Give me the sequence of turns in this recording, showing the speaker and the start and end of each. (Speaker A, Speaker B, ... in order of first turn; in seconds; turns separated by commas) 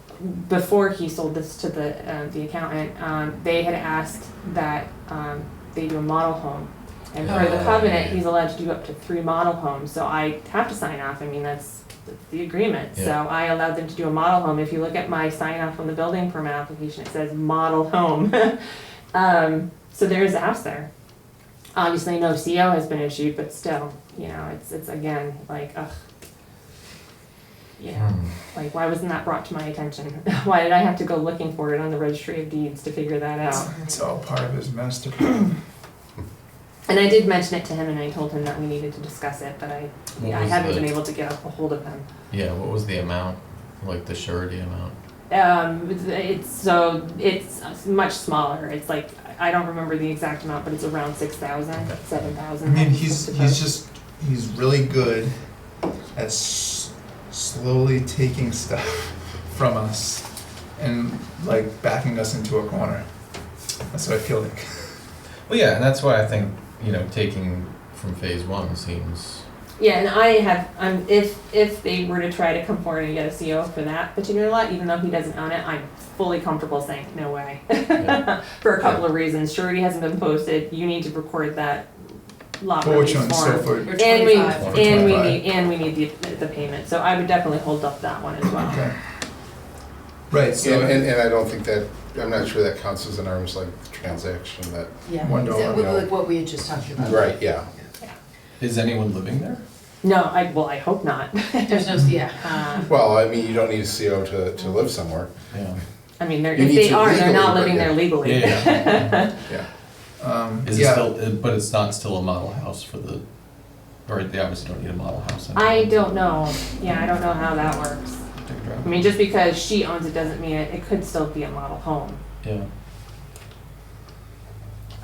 Speaker A: 0.2-18.6, Speaker B: 7.2-8.2, Speaker A: 19.1-20.9, Speaker A: 21.7-25.9, Speaker A: 27.8-33.7, Speaker B: 27.9-28.3, Speaker C: 33.5-35.5, Speaker D: 33.6-33.9, Speaker A: 36.9-42.1, Speaker B: 40.2-40.9, Speaker B: 42.3-44.9, Speaker A: 45.3-53.7, Speaker B: 51.8-52.3, Speaker C: 52.6-55.4, Speaker C: 56.1-63.1, Speaker C: 63.9-65.0, Speaker B: 65.5-69.4, Speaker A: 69.8-88.9, Speaker B: 78.0-79.0, Speaker C: 82.8-85.4, Speaker D: 83.8-85.1, Speaker B: 84.5-85.1, Speaker C: 88.6-89.0, Speaker C: 90.3-91.1, Speaker E: 90.6-96.2, Speaker D: 95.0-97.8, Speaker C: 95.2-96.0, Speaker E: 96.9-97.7, Speaker B: 98.6-99.6, Speaker A: 100.0-102.9, Speaker D: 101.7-102.8, Speaker E: 102.8-105.3, Speaker B: 105.5-105.8, Speaker A: 106.2-109.4, Speaker E: 106.5-108.1, Speaker B: 108.2-109.0, Speaker C: 108.7-109.2, Speaker C: 110.2-111.1, Speaker B: 110.7-113.2, Speaker B: 113.8-115.9, Speaker A: 115.5-118.2, Speaker B: 118.3-119.0, Speaker A: 118.8-122.2, Speaker B: 122.4-122.7